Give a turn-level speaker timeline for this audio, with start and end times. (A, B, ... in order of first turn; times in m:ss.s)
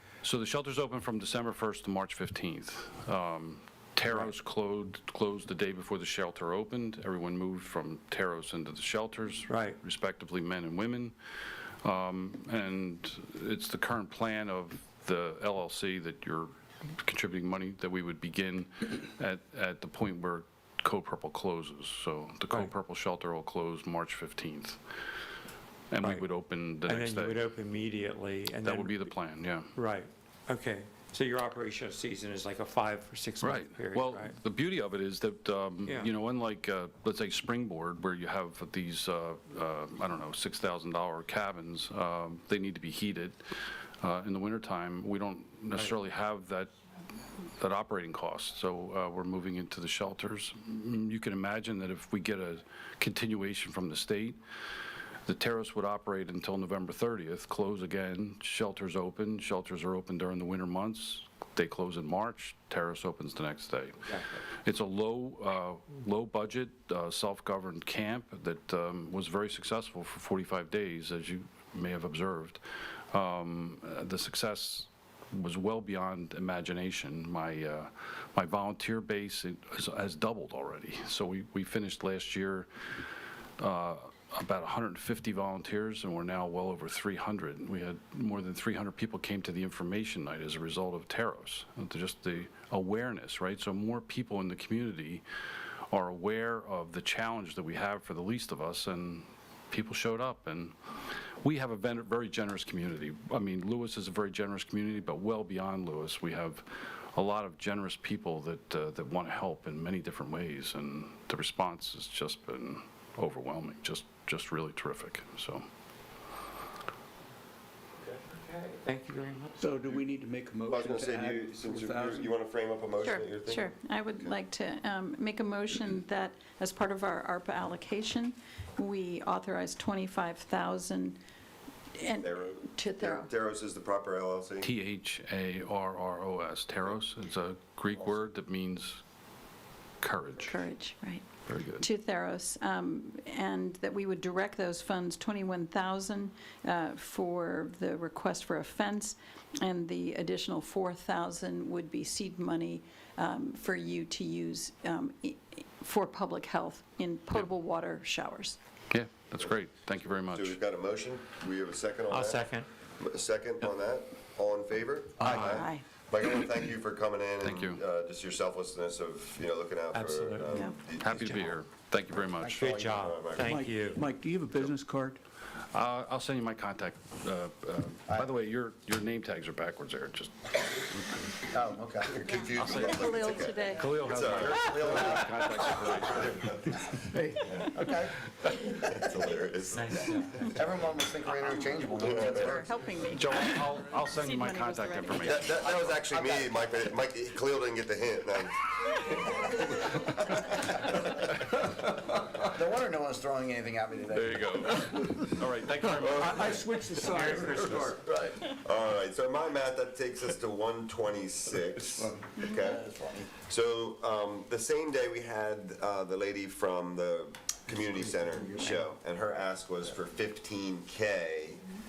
0:00.2-0:11.1 A
0:04.0-0:04.3 B
0:09.5-0:09.8 B
0:11.8-0:24.8 A
0:25.9-0:27.5 A
0:26.8-0:29.1 B
0:28.6-0:29.7 A
0:29.7-0:34.4 B
0:33.4-0:43.4 A
0:35.8-0:36.1 B
0:44.0-0:46.7 A
0:47.6-0:54.4 A
0:55.2-1:04.1 A
1:04.1-1:04.4 B
1:04.6-1:12.6 A
1:13.1-1:22.7 A
1:23.6-1:35.2 A
1:35.9-1:40.8 A
1:41.4-1:55.6 A
1:58.0-1:59.7 B
1:59.6-2:02.3 C
2:00.7-2:04.4 D
2:03.0-2:11.2 E
2:12.0-2:13.3 E
2:12.2-2:14.7 D
2:14.6-2:19.0 A
2:20.0-2:20.7 A
2:20.4-2:21.3 E
2:21.5-2:21.9 A
2:21.8-2:38.6 E
2:38.9-2:40.6 A
2:40.1-2:42.5 D
2:42.1-2:42.7 B
2:43.0-2:51.6 D
2:45.2-2:45.6 B
2:45.2-2:45.5 C
2:45.4-2:45.8 E
2:47.4-2:47.8 A
2:49.9-2:51.4 B
2:51.0-2:52.7 A
2:52.4-2:53.2 F
2:52.6-2:54.0 B
2:52.9-2:53.5 D
2:53.4-2:55.2 C
2:55.7-3:01.3 A
2:58.1-2:58.3 F
3:01.5-3:02.3 F
3:02.0-3:05.2 D
3:02.4-3:06.6 A
3:02.6-3:04.0 E
3:03.8-3:04.5 B
3:04.5-3:08.2 F
3:05.8-3:06.8 D
3:08.7-3:10.2 D
3:09.7-3:10.4 B
3:10.5-3:12.7 F
3:11.9-3:12.6 D
3:12.1-3:15.6 E
3:13.1-3:15.8 A
3:15.3-3:18.6 D
3:15.4-3:16.8 F
3:22.4-3:25.1 F
3:24.1-3:26.7 A
3:26.0-3:28.3 C
3:27.0-3:28.0 B
3:28.2-3:32.9 D
3:32.1-3:33.3 F
3:33.4-3:41.6 D